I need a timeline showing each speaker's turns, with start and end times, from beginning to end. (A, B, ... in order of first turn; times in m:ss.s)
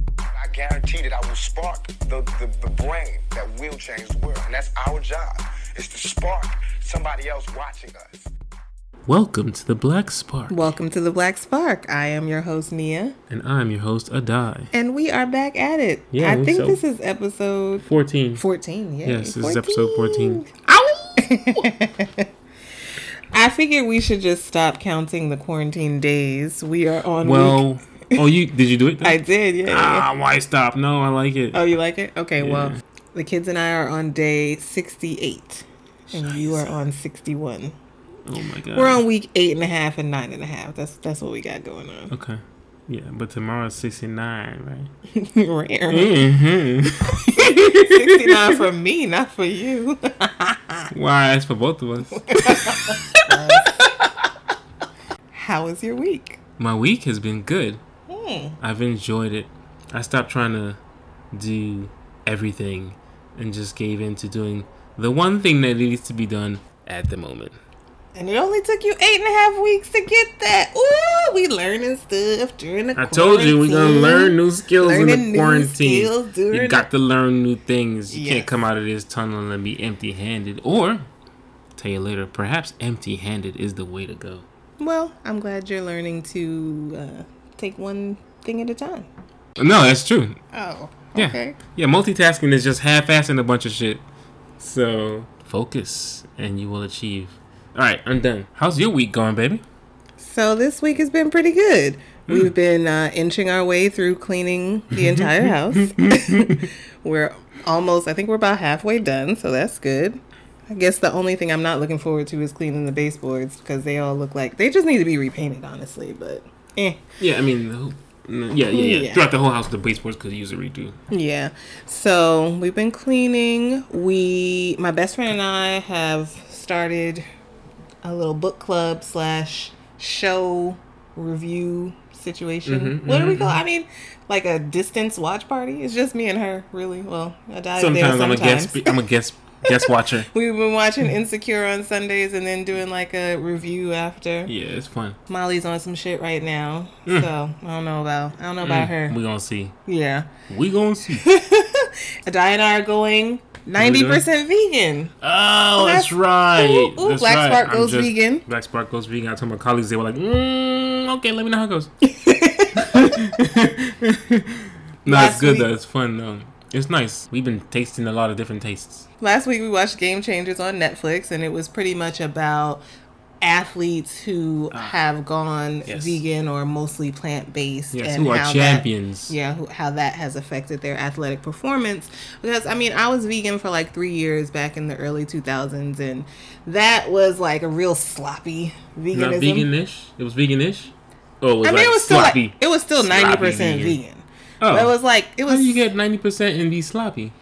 0:00.3-0:08.3 A
0:09.1-0:10.7 B
0:10.5-0:13.2 C
0:13.3-0:14.7 B
0:14.7-0:17.8 C
0:16.1-0:16.8 B
0:17.8-0:18.4 B
0:18.4-0:22.3 C
0:19.0-0:20.5 B
0:23.3-0:28.2 C
0:27.2-0:31.6 B
0:29.0-0:30.1 C
0:31.5-0:37.8 C
0:32.4-0:32.8 B
0:36.1-0:36.7 B
0:38.2-0:39.0 B
0:38.7-0:42.1 C
0:42.1-0:44.9 B
0:45.1-0:46.3 C
0:45.9-0:48.6 B
0:47.3-0:50.9 C
0:50.9-0:53.9 B
0:52.3-0:53.8 C
0:55.3-0:56.4 C
0:56.6-0:57.8 B
0:58.1-0:58.6 C
0:58.6-1:00.8 B
1:01.3-1:07.6 B
1:08.2-1:16.9 C
1:13.0-1:21.1 B
1:18.1-1:18.5 C
1:21.8-1:24.5 B
1:24.8-1:29.1 C
1:29.6-1:30.4 B
1:30.5-1:31.6 C
1:31.2-1:34.0 B
1:34.6-1:39.6 B
1:40.2-1:57.0 C
1:44.9-1:46.7 B
1:57.2-2:01.0 B
1:58.7-1:59.2 C
2:01.1-2:07.3 C
2:08.0-2:19.0 C
2:12.7-2:13.6 B
2:17.8-2:20.3 B
2:19.7-2:24.5 C
2:24.5-2:25.2 B
2:25.3-2:29.2 C
2:28.6-2:29.7 B
2:29.9-2:30.3 C
2:30.5-2:31.3 B
2:31.1-2:35.1 C
2:33.8-2:34.2 B
2:35.2-2:41.9 B
2:35.8-2:38.4 C
2:42.0-2:43.1 C
2:42.8-2:49.0 B
2:45.1-2:45.7 C
2:49.2-2:52.8 C
2:53.4-3:09.7 C
2:55.9-2:56.2 B
2:57.9-2:59.3 B
3:09.1-3:14.0 B
3:11.6-3:15.8 C
3:14.6-3:17.3 B